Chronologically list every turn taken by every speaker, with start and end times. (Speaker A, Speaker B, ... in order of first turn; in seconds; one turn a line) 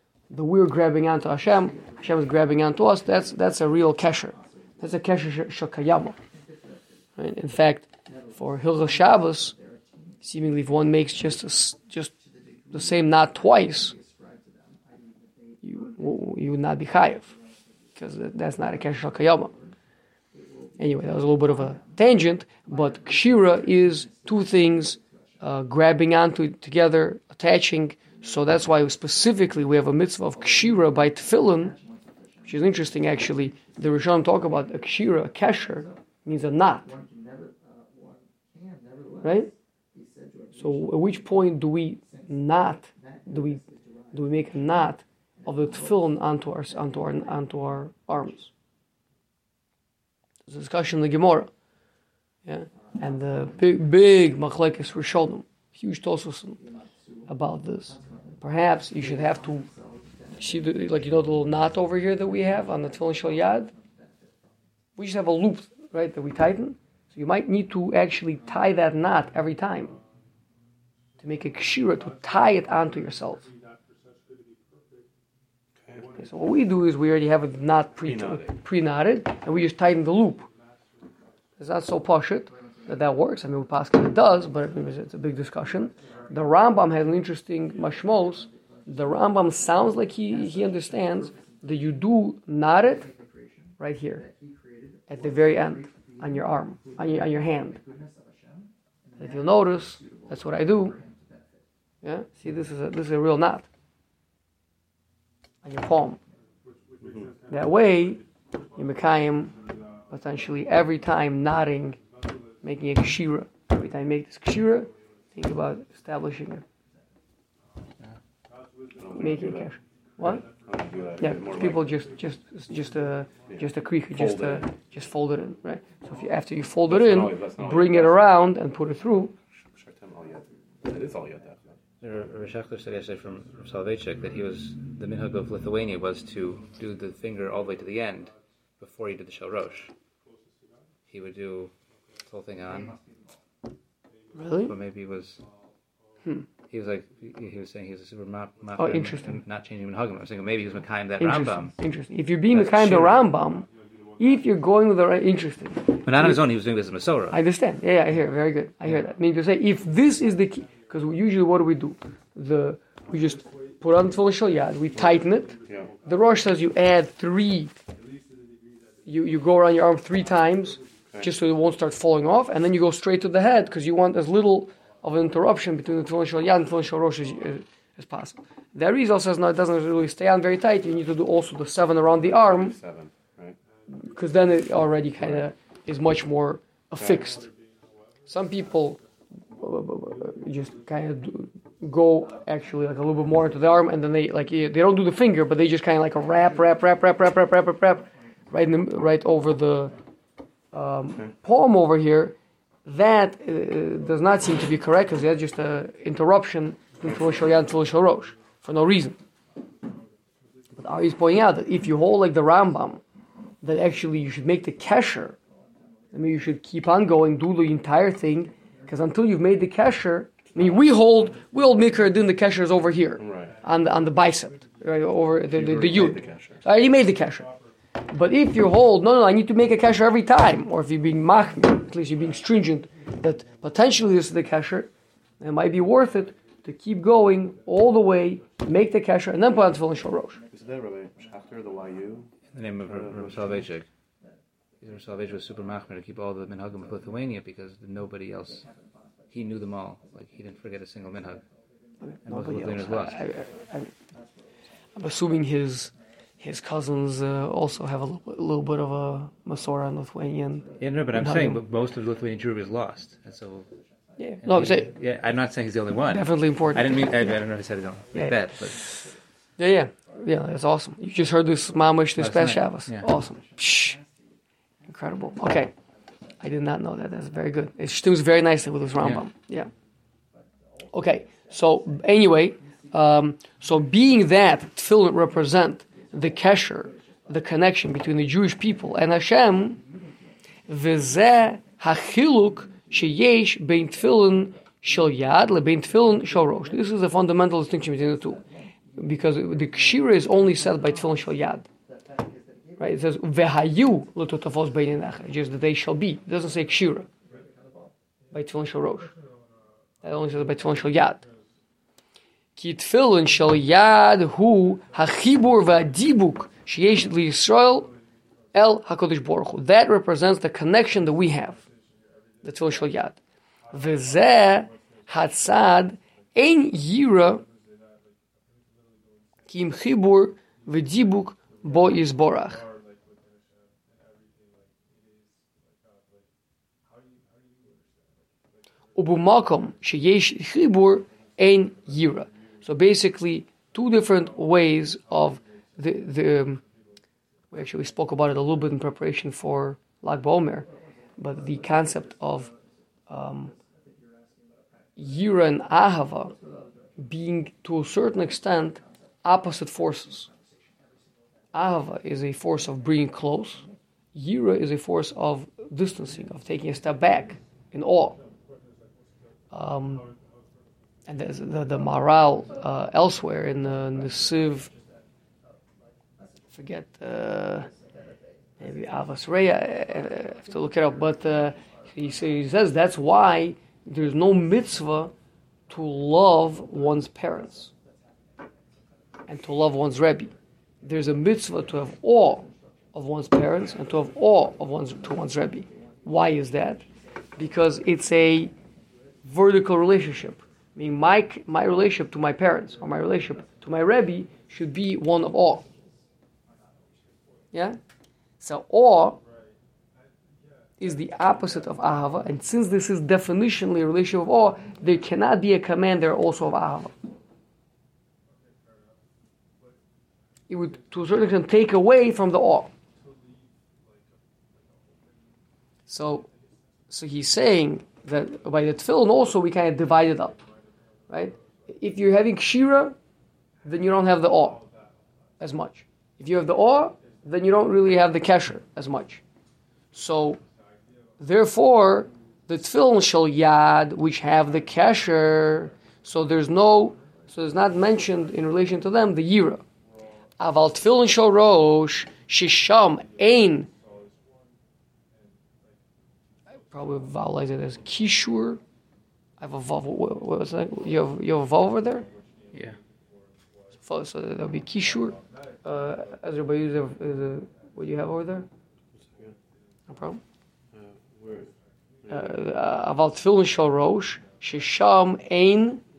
Speaker A: 0.3-6.2
Speaker A: 7.2-9.6
Speaker A: 10.2-12.1
Speaker A: 12.7-13.9
Speaker A: 15.6-17.4
Speaker A: 17.9-19.5
Speaker A: 20.8-31.8
Speaker A: 32.4-36.9
Speaker A: 39.2-39.5
Speaker A: 40.5-48.5
Speaker A: 50.5-51.5
Speaker A: 52.4-56.6
Speaker A: 57.3-59.7
Speaker A: 60.4-63.7
Speaker A: 65.0-70.0
Speaker A: 71.2-73.5
Speaker B: 75.8-76.1
Speaker A: 76.1-80.5
Speaker B: 78.0-78.6
Speaker A: 81.6-93.1
Speaker A: 93.8-94.3
Speaker A: 95.1-97.8
Speaker A: 99.2-101.0
Speaker A: 102.0-103.7
Speaker A: 105.6-106.2
Speaker B: 107.0-107.3
Speaker A: 107.5-109.5
Speaker A: 110.1-112.0
Speaker A: 112.6-116.6
Speaker B: 118.9-119.7
Speaker A: 119.1-120.4
Speaker B: 120.2-121.9
Speaker A: 121.2-129.3
Speaker B: 123.5-124.6
Speaker B: 126.9-128.3
Speaker B: 129.7-131.8
Speaker C: 132.0-139.9
Speaker C: 141.1-141.7
Speaker C: 142.3-143.0
Speaker A: 144.3-144.7
Speaker C: 144.7-145.4
Speaker C: 146.7-151.7
Speaker A: 148.8-149.4
Speaker A: 151.2-153.7
Speaker C: 152.5-153.2
Speaker A: 154.2-156.4
Speaker C: 156.0-157.4
Speaker A: 157.3-167.7
Speaker B: 165.7-165.9
Speaker A: 169.1-182.7
Speaker B: 182.2-183.6
Speaker A: 183.9-187.5
Speaker B: 187.0-187.2
Speaker A: 188.2-189.0
Speaker A: 189.5-199.9
Speaker A: 200.7-209.2
Speaker A: 210.8-213.0
Speaker A: 213.6-215.4
Speaker A: 216.1-227.5
Speaker B: 223.2-223.5
Speaker B: 225.5-226.6
Speaker A: 228.1-240.4
Speaker B: 240.5-242.3
Speaker C: 242.5-243.9
Speaker B: 242.8-243.6
Speaker C: 244.8-248.7
Speaker C: 249.3-251.4
Speaker A: 252.0-253.9
Speaker C: 252.2-253.2
Speaker A: 254.9-261.6
Speaker C: 260.8-263.7
Speaker A: 264.2-264.9
Speaker C: 264.4-268.9
Speaker A: 266.1-267.3
Speaker A: 268.1-269.0
Speaker A: 269.6-274.0
Speaker C: 272.2-273.1
Speaker A: 274.9-275.7
Speaker A: 276.4-279.7
Speaker A: 280.9-289.8
Speaker A: 290.7-298.4
Speaker A: 299.0-301.7
Speaker A: 302.8-307.1
Speaker A: 308.3-309.1
Speaker A: 310.0-311.2
Speaker A: 312.6-317.9
Speaker A: 318.5-321.6
Speaker A: 322.4-323.2
Speaker A: 323.7-327.4
Speaker A: 329.5-332.6
Speaker A: 338.9-346.6
Speaker A: 347.5-352.5
Speaker A: 353.1-353.5
Speaker A: 355.0-356.3
Speaker A: 357.0-360.3
Speaker A: 361.5-368.2
Speaker A: 369.5-370.1
Speaker A: 371.1-374.7
Speaker A: 376.5-377.7
Speaker A: 378.6-385.1
Speaker A: 385.7-387.7
Speaker A: 389.3-396.8
Speaker A: 397.4-398.5
Speaker A: 399.2-405.7
Speaker A: 407.5-407.8
Speaker A: 408.4-409.2
Speaker A: 410.8-416.9
Speaker A: 420.5-422.7
Speaker A: 425.9-426.3
Speaker A: 426.9-430.4
Speaker A: 431.1-432.9
Speaker A: 433.6-434.6
Speaker A: 435.4-439.2
Speaker A: 439.9-440.4
Speaker A: 441.2-449.6
Speaker A: 450.4-453.7
Speaker A: 456.7-458.6
Speaker A: 459.4-462.1
Speaker A: 463.8-468.5
Speaker B: 468.9-469.4
Speaker A: 469.9-470.2
Speaker B: 470.7-471.5
Speaker B: 472.0-472.3
Speaker A: 472.1-475.8